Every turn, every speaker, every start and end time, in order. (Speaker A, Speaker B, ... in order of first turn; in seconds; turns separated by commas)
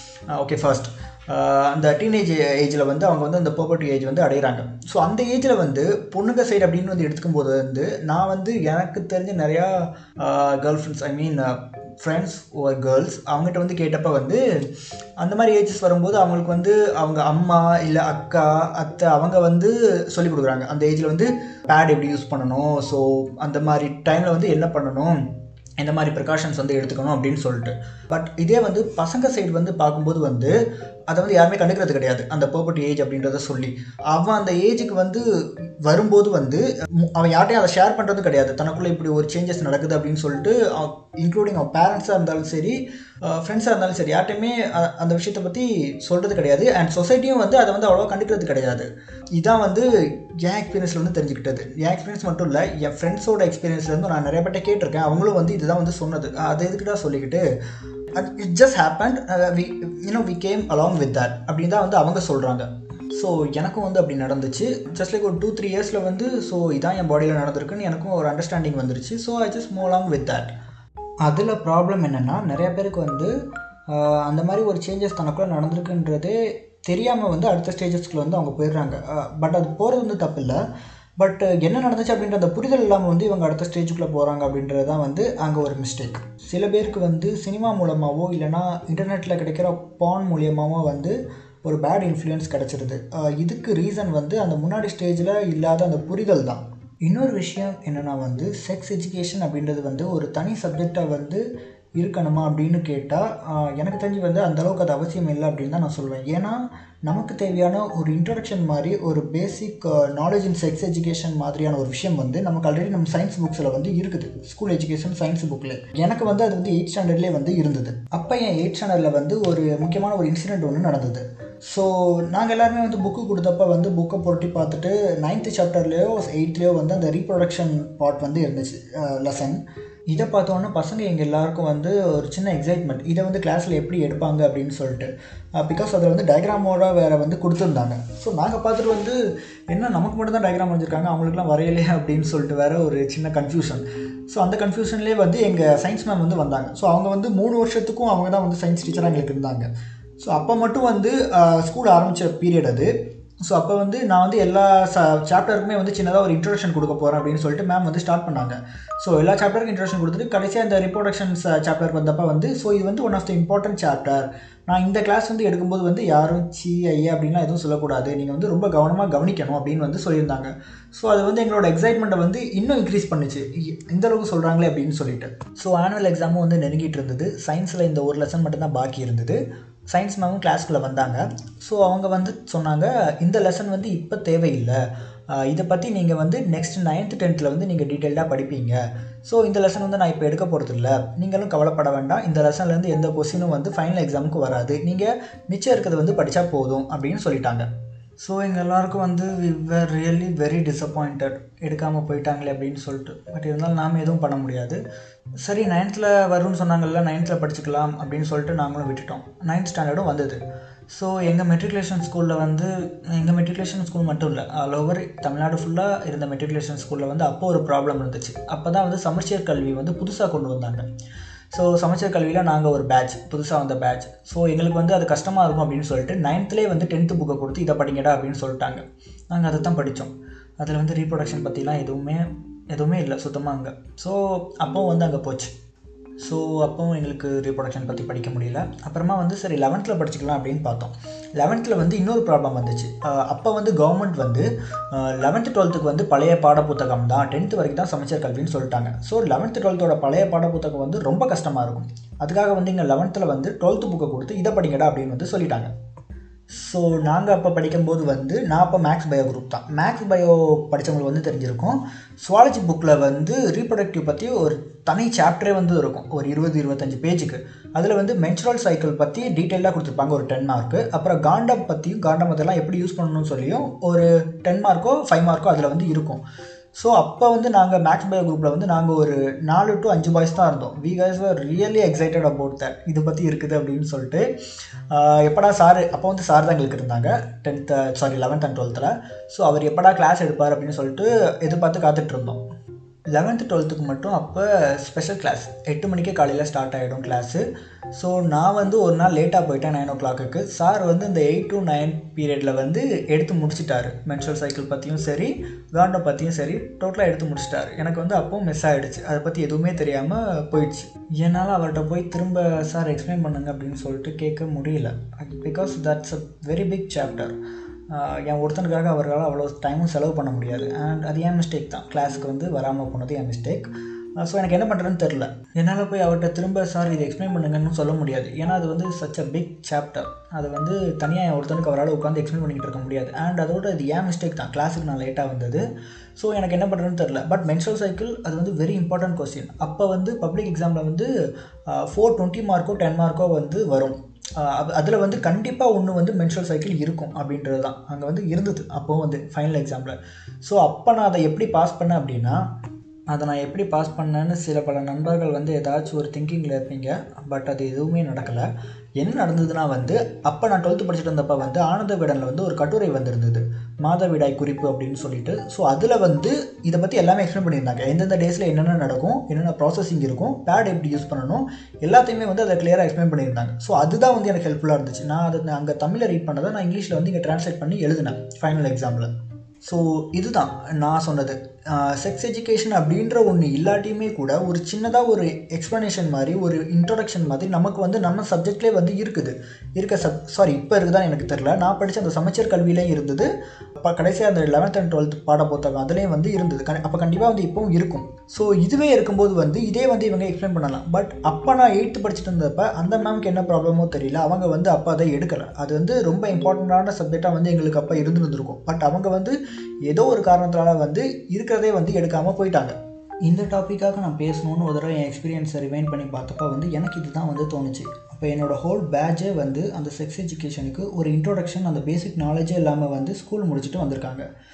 Speaker A: 0.3-14.4, Speaker A: 15.2-25.2, Speaker A: 25.8-30.6, Speaker A: 31.1-35.2, Speaker A: 35.8-57.4, Speaker A: 58.1-70.5, Speaker A: 71.2-73.3, Speaker A: 73.9-80.6, Speaker A: 81.2-101.4, Speaker A: 102.0-149.7, Speaker A: 150.2-152.9, Speaker A: 153.5-184.8, Speaker A: 185.3-197.7, Speaker A: 198.2-204.8, Speaker A: 205.4-220.9, Speaker A: 221.5-235.5, Speaker A: 236.2-255.7, Speaker A: 256.5-276.2, Speaker A: 276.8-284.3, Speaker A: 284.9-292.4, Speaker A: 293.1-317.4, Speaker A: 317.9-335.6, Speaker A: 336.2-341.1, Speaker A: 341.7-352.4, Speaker A: 353.1-358.5, Speaker A: 359.0-379.1, Speaker A: 379.6-424.2